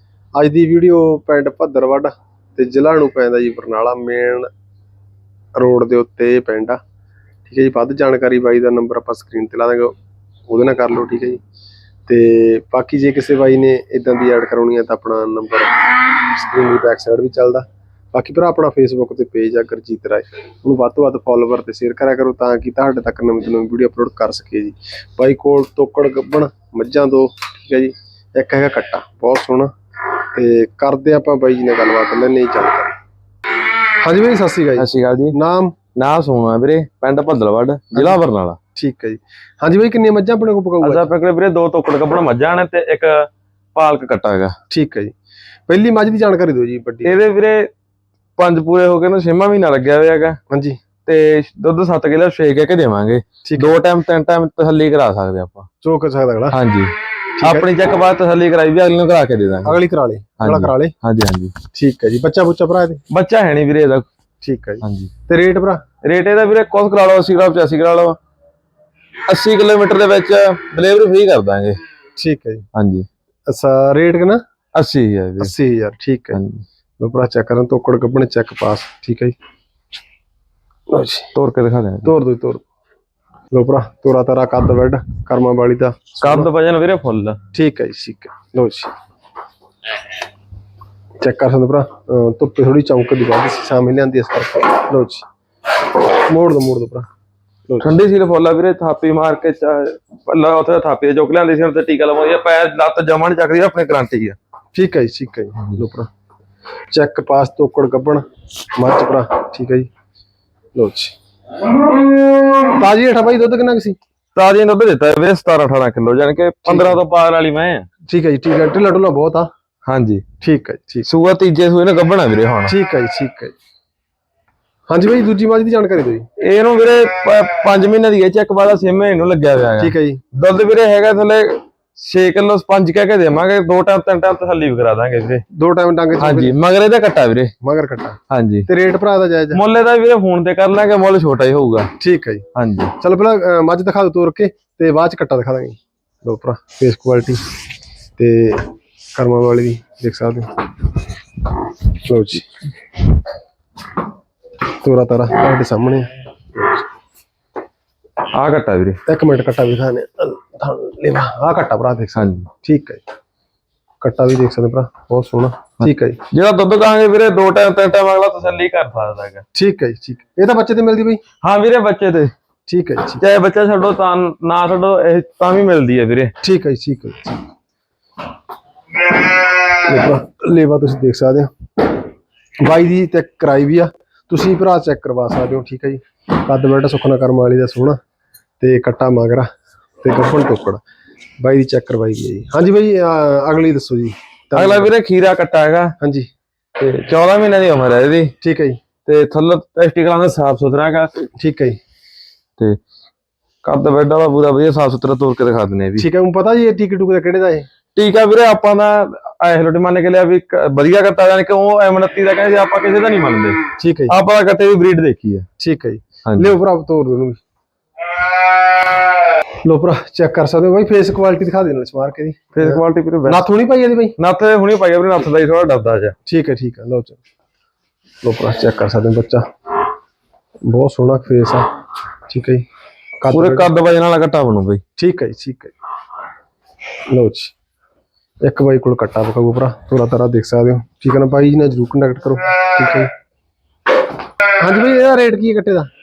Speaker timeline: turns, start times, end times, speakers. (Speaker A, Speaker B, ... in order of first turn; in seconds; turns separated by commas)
Speaker A: 0.4-4.5, Speaker A: 5.6-6.8, Speaker A: 7.5-9.9, Speaker A: 10.5-11.4, Speaker A: 12.1-29.7, Speaker A: 30.3-33.0, Speaker A: 34.0-35.7, Speaker B: 34.8-35.4, Speaker B: 36.0-38.6, Speaker A: 38.0-38.2, Speaker A: 38.8-41.1, Speaker B: 40.8-44.6, Speaker A: 44.7-45.1, Speaker A: 45.7-47.2, Speaker B: 47.0-47.7, Speaker B: 48.4-50.4, Speaker A: 50.5-50.8, Speaker B: 51.1-55.7, Speaker A: 53.4-53.8, Speaker A: 55.8-56.6, Speaker B: 56.5-59.8, Speaker A: 57.4-57.7, Speaker A: 59.6-61.0, Speaker B: 60.4-61.5, Speaker A: 61.7-63.0, Speaker B: 63.1-64.1, Speaker A: 64.4-65.8, Speaker B: 64.8-65.1, Speaker B: 66.0-68.2, Speaker B: 69.3-71.8, Speaker A: 72.2-72.7, Speaker B: 72.7-73.1, Speaker A: 73.5-74.4, Speaker B: 74.8-75.5, Speaker A: 75.4-76.4, Speaker B: 76.3-76.6, Speaker A: 77.0-79.4, Speaker A: 80.9-81.3, Speaker B: 81.3-82.1, Speaker A: 82.0-82.6, Speaker A: 83.5-86.5, Speaker B: 86.2-87.4, Speaker A: 87.5-88.9, Speaker A: 91.2-95.3, Speaker A: 96.3-97.1, Speaker A: 97.7-98.0, Speaker B: 97.8-104.4, Speaker A: 104.7-106.1, Speaker A: 106.9-108.2, Speaker A: 108.8-109.9, Speaker A: 110.8-111.1, Speaker A: 112.7-114.0, Speaker B: 114.3-117.9, Speaker A: 116.7-117.0, Speaker A: 118.1-119.5, Speaker B: 119.9-120.2, Speaker A: 120.4-121.1, Speaker B: 121.0-122.7, Speaker A: 122.7-123.5, Speaker A: 124.9-126.3, Speaker B: 126.4-135.4, Speaker A: 129.8-130.2, Speaker A: 135.5-136.6, Speaker B: 136.2-137.5, Speaker A: 137.6-139.6, Speaker B: 138.3-138.7, Speaker B: 139.5-141.9, Speaker A: 142.0-147.4, Speaker B: 142.5-142.9, Speaker A: 148.2-150.6, Speaker A: 152.0-152.5, Speaker A: 154.8-156.8, Speaker B: 158.3-159.0, Speaker A: 159.1-163.0, Speaker B: 162.2-162.5, Speaker A: 164.0-166.2, Speaker B: 165.8-169.4, Speaker A: 169.5-171.2, Speaker B: 171.4-172.3, Speaker A: 172.7-173.2, Speaker B: 173.2-176.3, Speaker A: 176.4-177.4, Speaker A: 179.8-181.5, Speaker A: 182.6-188.0, Speaker A: 188.6-189.5, Speaker A: 190.0-190.8, Speaker A: 191.4-194.9, Speaker B: 194.5-195.9, Speaker A: 196.0-196.3, Speaker B: 196.8-198.3, Speaker A: 198.4-198.8, Speaker B: 199.1-201.2, Speaker A: 201.4-201.8, Speaker B: 203.6-206.1, Speaker A: 206.0-207.7, Speaker B: 208.0-215.5, Speaker A: 213.8-214.2, Speaker A: 215.6-217.4, Speaker B: 216.3-216.5, Speaker A: 219.6-224.2, Speaker B: 222.6-223.5, Speaker B: 224.2-226.2, Speaker A: 226.3-227.2, Speaker A: 228.2-229.4, Speaker A: 230.7-231.7, Speaker A: 232.3-232.7, Speaker A: 233.2-233.7, Speaker B: 233.3-234.8, Speaker A: 235.0-235.7, Speaker A: 237.1-237.5, Speaker A: 238.4-243.1, Speaker A: 244.6-245.9